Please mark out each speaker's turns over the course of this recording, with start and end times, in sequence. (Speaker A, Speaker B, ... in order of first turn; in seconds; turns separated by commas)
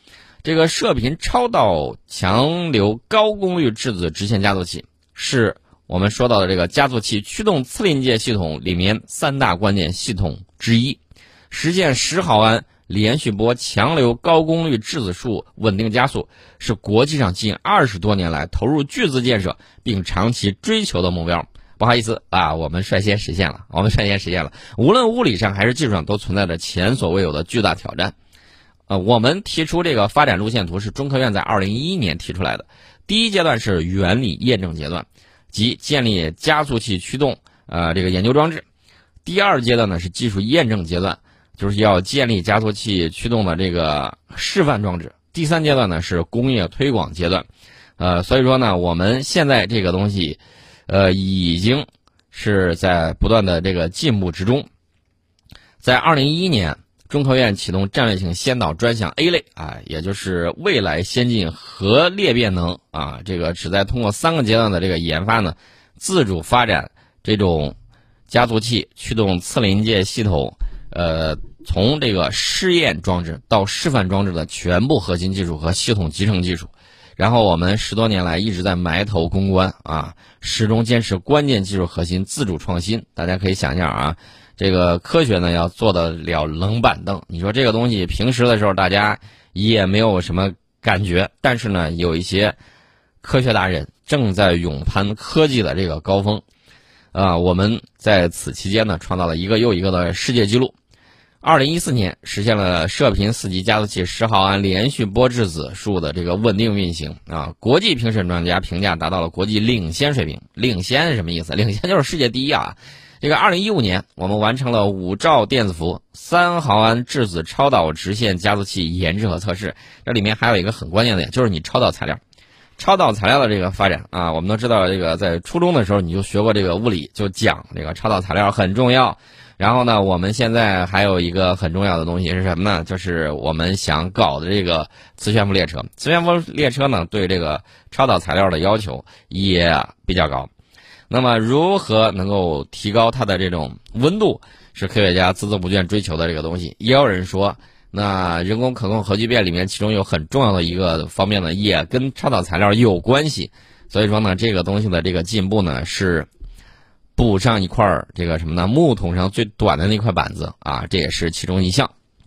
Speaker A: 0.4-11.0, Speaker A: 11.5-28.1, Speaker A: 28.9-38.6, Speaker A: 39.2-47.5, Speaker A: 48.0-54.7, Speaker A: 55.8-67.7, Speaker A: 68.3-92.6, Speaker A: 93.2-96.4, Speaker A: 97.1-100.7, Speaker A: 101.4-122.2, Speaker A: 122.8-140.5, Speaker A: 141.1-156.3, Speaker A: 157.2-161.9